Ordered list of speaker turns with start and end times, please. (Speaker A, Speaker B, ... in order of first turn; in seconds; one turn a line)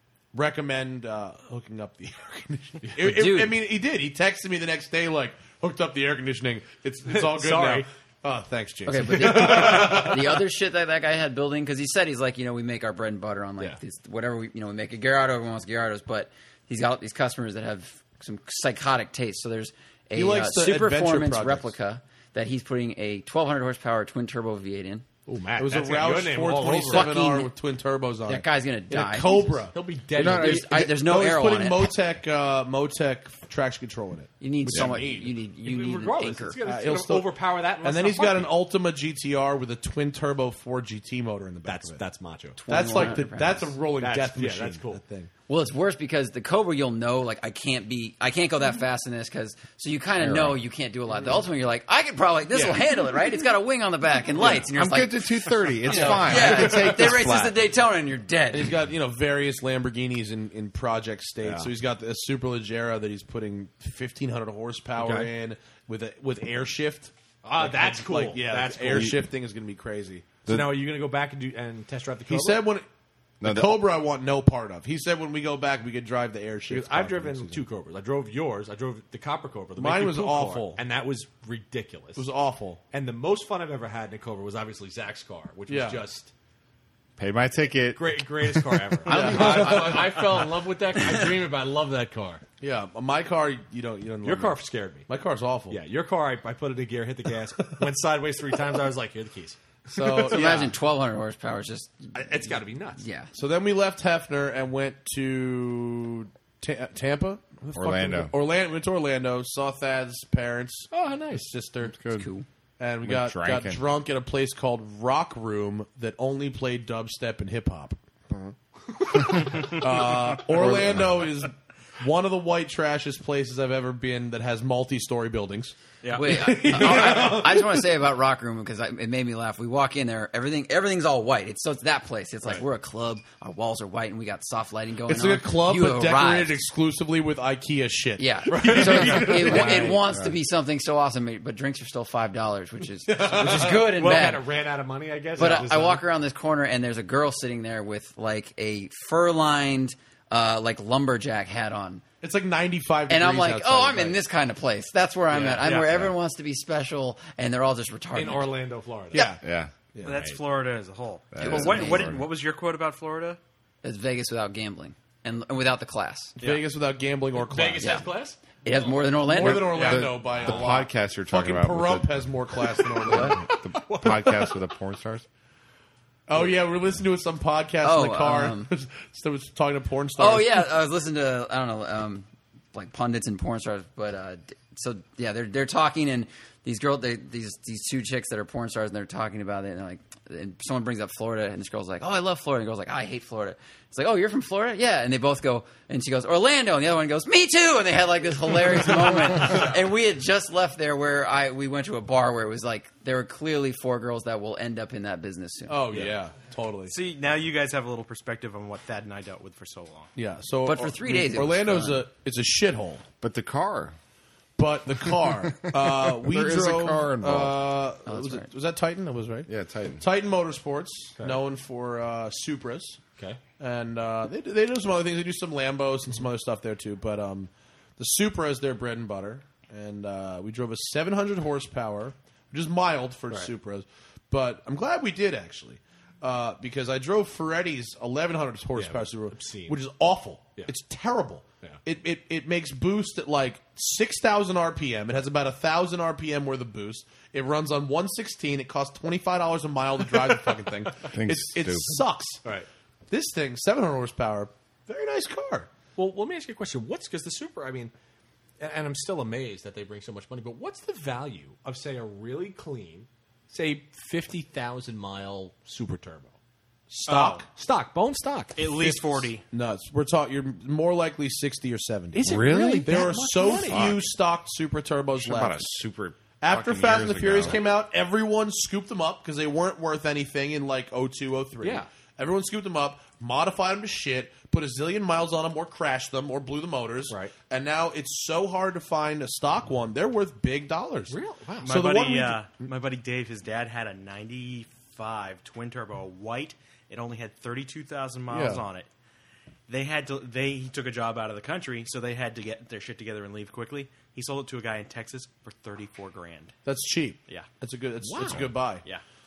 Speaker A: 0.3-10.4
Speaker B: 3.0-3.6
Speaker C: 7.0-7.9
Speaker B: 8.8-25.0
Speaker C: 9.3-10.0
Speaker A: 20.1-21.7
Speaker C: 25.3-27.1
Speaker A: 25.6-35.2
Speaker B: 26.9-27.5
Speaker B: 28.2-29.7
Speaker C: 29.7-30.7
Speaker D: 30.1-30.6
Speaker B: 30.2-31.9
Speaker B: 34.4-36.6
Speaker C: 34.6-38.6
Speaker A: 36.6-42.0
Speaker C: 41.6-43.2
Speaker B: 42.6-43.7
Speaker A: 42.6-45.3
Speaker C: 44.0-45.0
Speaker B: 45.5-55.3
Speaker D: 50.2-50.6
Speaker D: 54.7-57.6
Speaker B: 55.9-58.7
Speaker A: 55.9-56.6
Speaker C: 55.9-56.7
Speaker A: 58.5-70.3
Speaker C: 61.4-61.7
Speaker C: 65.0-65.3
Speaker C: 67.4-69.2
Speaker D: 68.9-69.1
Speaker D: 70.5-70.8
Speaker C: 70.5-72.7
Speaker A: 72.3-72.8
Speaker D: 73.4-73.9
Speaker A: 73.4-77.6
Speaker C: 76.7-82.3
Speaker A: 79.8-80.8
Speaker A: 82.2-82.8
Speaker C: 82.9-86.3
Speaker A: 85.7-86.0
Speaker D: 87.2-88.6
Speaker C: 87.9-92.4
Speaker A: 89.0-90.0
Speaker B: 89.1-90.1
Speaker A: 92.6-95.8
Speaker C: 94.2-95.0
Speaker C: 95.7-99.6
Speaker A: 99.9-100.7
Speaker B: 100.0-102.1
Speaker C: 102.1-103.0
Speaker B: 103.0-103.3
Speaker A: 103.3-112.2
Speaker D: 107.7-108.3
Speaker C: 110.9-111.5
Speaker B: 112.0-112.5
Speaker A: 112.8-118.5
Speaker D: 113.0-113.8
Speaker A: 119.1-127.9
Speaker D: 120.5-121.3
Speaker E: 126.0-126.5
Speaker B: 126.1-136.6
Speaker C: 126.9-127.3
Speaker A: 135.1-140.0
Speaker B: 138.2-144.4
Speaker C: 138.5-140.0
Speaker C: 143.1-146.0
Speaker B: 145.4-152.0
Speaker A: 152.2-154.2
Speaker B: 153.1-158.6
Speaker C: 155.3-156.1
Speaker C: 158.1-159.3
Speaker A: 159.1-159.4
Speaker D: 159.4-159.7
Speaker A: 159.9-160.3
Speaker E: 160.0-163.4
Speaker D: 161.3-162.3
Speaker B: 161.4-162.1
Speaker B: 163.8-166.4
Speaker A: 166.4-168.0
Speaker C: 167.3-168.4
Speaker B: 167.8-168.1
Speaker B: 168.6-170.0
Speaker A: 168.8-174.1
Speaker D: 169.4-175.2
Speaker C: 169.8-170.7
Speaker B: 173.1-173.3
Speaker C: 173.7-174.5
Speaker A: 176.3-180.7
Speaker B: 177.8-178.7
Speaker B: 180.2-205.8
Speaker A: 205.7-207.0
Speaker E: 206.9-210.1
Speaker A: 210.1-213.0
Speaker B: 210.6-212.0
Speaker D: 213.2-213.9
Speaker A: 214.6-223.0
Speaker D: 215.1-217.8
Speaker B: 218.1-218.5
Speaker D: 219.5-220.0
Speaker A: 223.6-252.4
Speaker C: 238.7-239.8
Speaker D: 251.1-252.0
Speaker A: 253.1-255.7
Speaker C: 255.9-257.9
Speaker C: 258.6-266.3
Speaker A: 266.9-267.5
Speaker E: 267.1-267.4
Speaker C: 267.5-269.3
Speaker E: 268.6-269.4
Speaker A: 269.5-275.6
Speaker C: 272.1-274.0
Speaker D: 272.2-274.0
Speaker D: 275.1-277.6
Speaker A: 276.4-292.6
Speaker C: 281.6-281.9
Speaker C: 291.1-291.7
Speaker E: 291.6-298.9
Speaker A: 298.3-298.6
Speaker E: 299.7-306.5
Speaker A: 306.6-308.8
Speaker C: 308.0-308.5